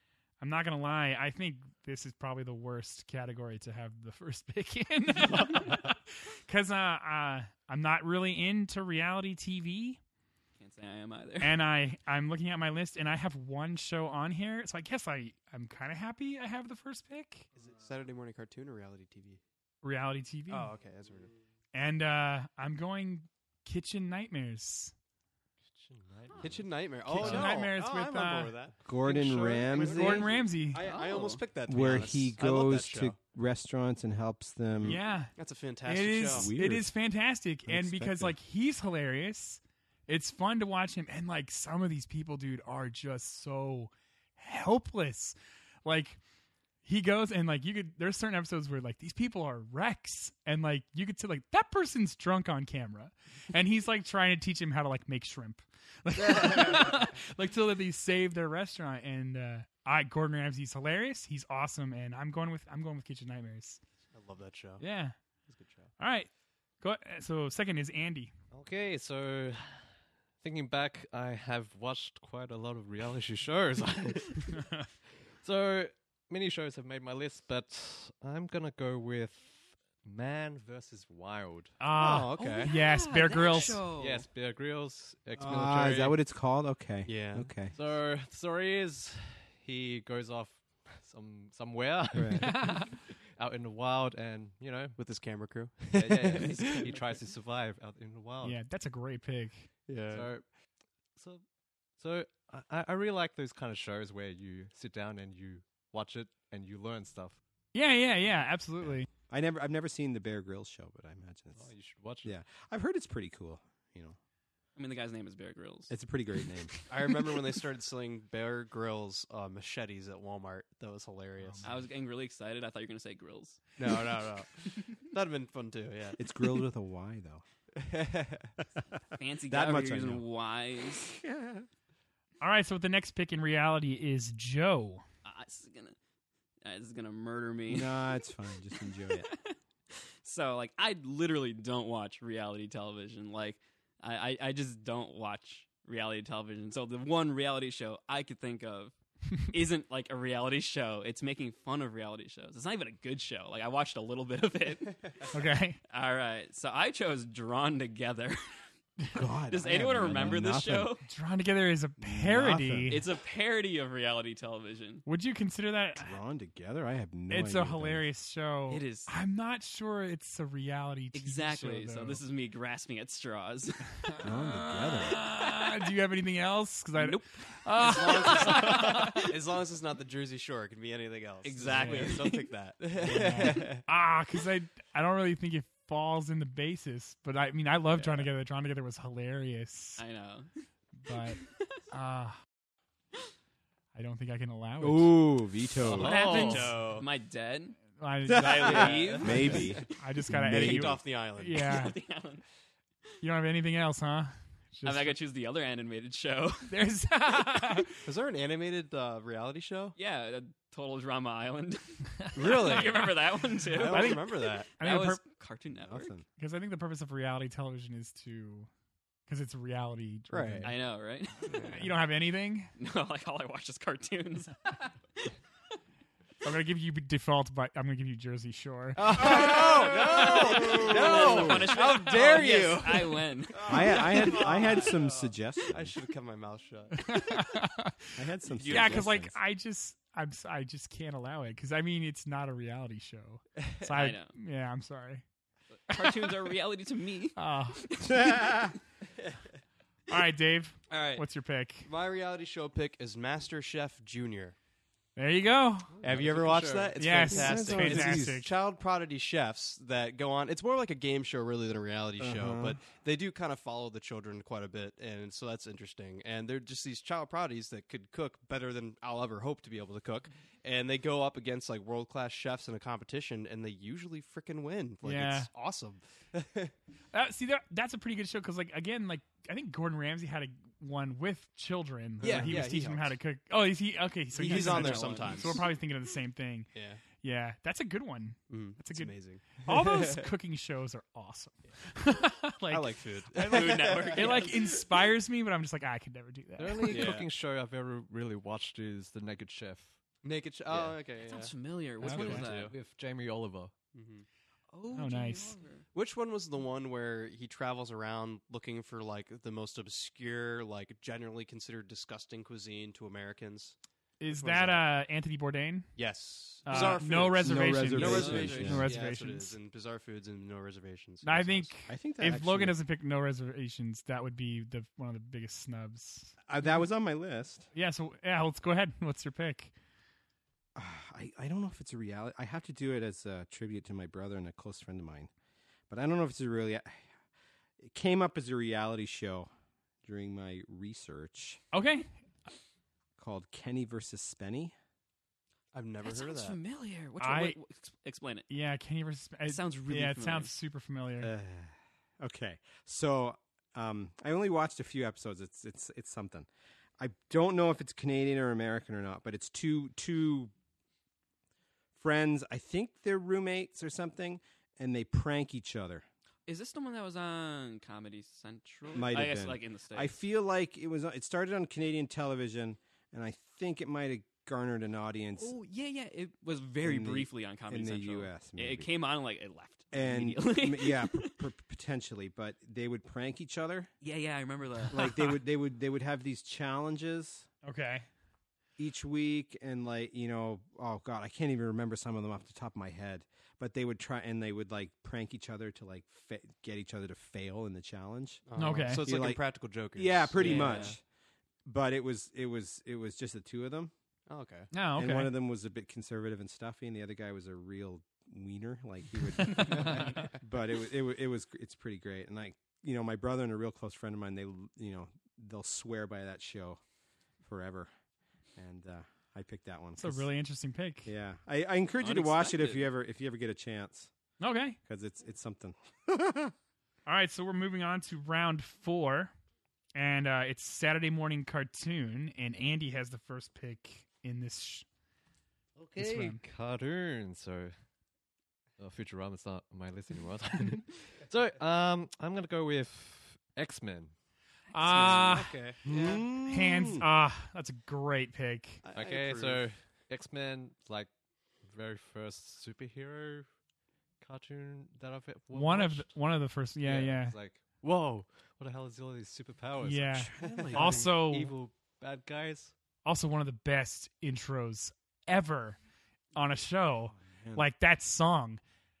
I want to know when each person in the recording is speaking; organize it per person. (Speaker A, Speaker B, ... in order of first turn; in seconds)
Speaker A: 0.4-10.0, 11.4-17.5, 19.8-20.7, 21.7-24.9, 27.1-28.5, 29.7-30.9, 34.8-46.2, 46.8-63.8, 64.8-65.1, 66.0-66.3, 66.8-68.3, 81.8-83.8, 92.4-92.8, 98.4-99.7, 107.7-109.1, 121.4-121.8, 132.4-135.0, 155.3-155.8, 161.1-163.1, 165.1-166.1, 167.3-172.2, 174.2-179.2, 181.7-182.2, 183.0-190.0, 191.0-192.3, 193.9-195.2, 196.0-196.7, 197.9-202.0, 203.2-205.2, 206.7-208.0, 213.8-215.2, 216.4-218.7, 219.3-220.8, 221.5-222.7, 226.4-229.0, 237.0-245.2, 245.9-246.3, 247.3-247.9, 250.1-251.9, 255.2-255.9, 256.9-258.5, 275.0-275.5, 277.1-297.1, 302.0-302.5, 304.9-305.5, 314.2-316.1, 316.6-319.6, 321.2-326.4, 327.7-329.7, 341.7-342.1, 347.2-347.6, 348.5-351.3, 387.6-388.1, 398.6-399.0, 404.7-405.3, 409.6-409.9, 420.0-421.1, 424.4-424.8, 427.1-429.3, 429.9-434.9, 435.9-436.4, 444.7-445.6, 446.4-448.8, 455.5-457.4, 459.8-461.5, 463.0-465.8, 466.3-468.6
Speaker B: 10.6-11.6, 30.7-31.4, 82.4-84.3, 96.4-97.1, 114.8-116.4, 121.6-123.8, 129.2-131.2, 135.2-135.9, 136.6-138.0, 138.8-155.3, 155.9-158.4, 159.4-161.0, 162.9-165.0, 168.7-169.1, 171.1-174.2, 175.1-175.7, 176.9-179.2, 181.4-182.5, 190.0-190.5, 191.4-191.8, 196.0-199.9, 201.6-202.4, 204.8-206.7, 209.9-216.1, 220.6-221.8, 222.8-224.9, 229.2-234.8, 243.8-244.3, 245.9-248.7, 284.5-285.4, 293.4-294.8, 301.2-302.7, 304.7-305.9, 317.9-318.8, 346.0-348.5, 349.4-350.5, 366.5-370.2, 375.4-381.4, 384.0-385.3, 400.4-401.0, 422.0-422.8, 444.8-445.9
Speaker C: 17.5-19.4, 20.5-21.3, 26.4-33.1, 35.4-36.5, 64.1-64.8, 65.5-65.9, 81.9-82.7, 87.0-87.6, 95.0-96.9, 99.9-100.3, 116.9-121.7, 123.8-126.2, 127.8-128.5, 177.8-183.8, 195.9-197.1, 198.6-199.9, 200.4-201.8, 208.0-209.9, 212.3-213.1, 213.7-214.7, 220.3-220.7, 229.0-237.3, 238.5-239.1, 250.9-251.3, 251.8-254.6, 256.0-276.7, 282.2-283.2, 284.3-285.7, 286.7-287.0, 288.5-290.3, 292.7-294.6, 296.9-297.3, 300.2-301.5, 302.1-302.7, 303.9-304.2, 305.9-313.8, 314.3-314.9, 315.9-321.7, 345.7-346.6, 398.4-400.9, 404.3-404.7, 409.7-410.3, 444.9-446.2, 448.8-449.7
Speaker D: 25.7-27.5, 29.8-30.2, 68.5-74.8, 75.4-81.8, 84.0-86.2, 87.7-95.0, 95.9-98.6, 100.1-100.5, 101.1-101.4, 102.0-107.4, 111.5-112.3, 195.8-196.7, 256.0-257.2, 296.6-300.0, 300.7-300.9, 302.1-303.7, 435.8-437.7, 438.8-444.1, 448.9-453.5, 454.2-456.2, 456.8-462.7
Speaker E: 28.8-30.3, 31.6-35.0, 36.3-36.9, 37.6-38.4, 85.4-87.7, 92.1-92.6, 109.3-111.7, 112.2-114.2, 115.9-116.7, 126.2-127.4, 129.5-130.2, 131.1-131.7, 137.7-139.3, 159.1-160.9, 162.0-163.0, 166.0-168.1, 174.2-175.2, 194.8-196.2, 198.3-201.0, 215.8-216.2, 229.2-231.7, 233.6-235.9, 238.1-239.3, 248.0-248.7, 257.3-258.4, 262.2-262.8, 316.7-318.9, 321.9-322.8, 326.5-327.7, 330.7-335.3, 335.9-337.1, 337.8-339.5, 340.0-341.6, 343.2-344.7, 351.2-360.5, 361.9-366.0, 368.9-375.5, 376.8-378.9, 379.9-383.9, 384.9-387.5, 388.8-401.0, 401.6-403.9, 404.9-416.8, 417.4-417.9, 418.6-420.3, 421.0-424.1, 424.8-426.5, 445.8-447.1, 460.2-461.0, 467.2-467.6